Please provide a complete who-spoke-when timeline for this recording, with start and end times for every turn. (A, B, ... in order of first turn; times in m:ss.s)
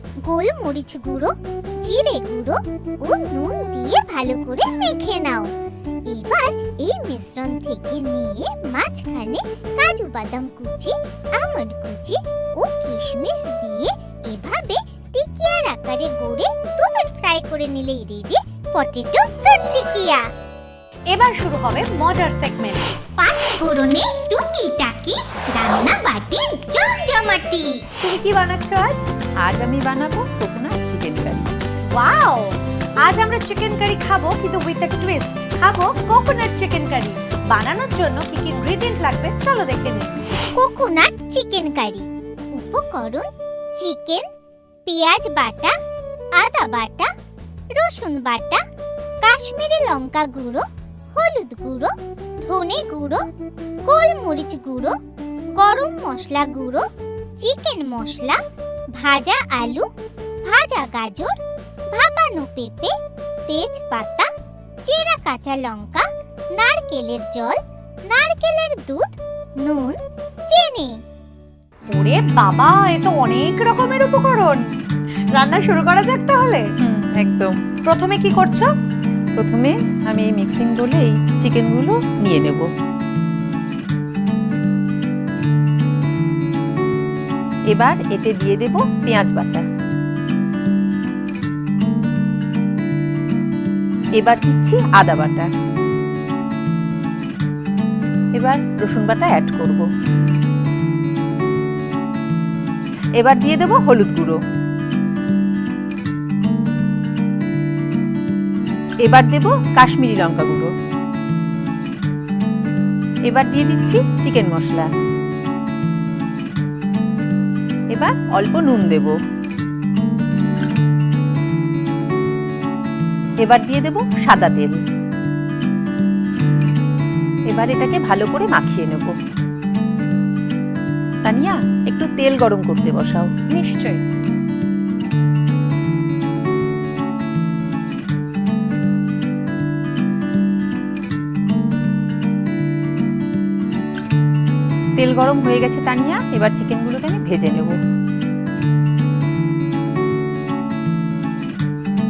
0:00.2-0:05.5 A
0:06.1-0:20.3 A
0:21.1-0:22.9 B
0:23.2-0:27.8 A
0:28.0-0:29.0 B
0:29.4-0:31.5 C
0:31.8-0:40.2 B
0:40.5-0:44.3 A
0:44.9-0:45.7 A
0:46.4-0:47.1 A
0:47.7-0:48.6 A
0:49.2-0:53.2 A
0:53.9-0:55.0 A
0:55.5-0:56.9 A
0:57.4-0:58.4 A
0:58.9-0:59.9 A
1:00.4-1:01.4 A
1:01.9-1:03.0 A
1:03.5-1:04.3 A
1:04.8-1:10.0 A
1:10.5-1:11.0 A
1:11.9-1:14.6 B
1:15.4-1:16.6 B
1:16.8-1:17.6 C
1:17.8-1:18.7 B
1:19.4-1:22.7 C
1:27.7-1:29.7 C
1:34.2-1:35.5 C
1:38.3-1:39.9 C
1:43.2-1:44.4 C
1:49.0-1:50.7 C
1:53.2-1:54.9 C
1:57.9-1:59.2 C
2:03.4-2:04.8 C
2:07.5-2:09.2 C
2:11.2-2:13.3 C
2:13.5-2:14.0 B
2:25.0-2:27.8 C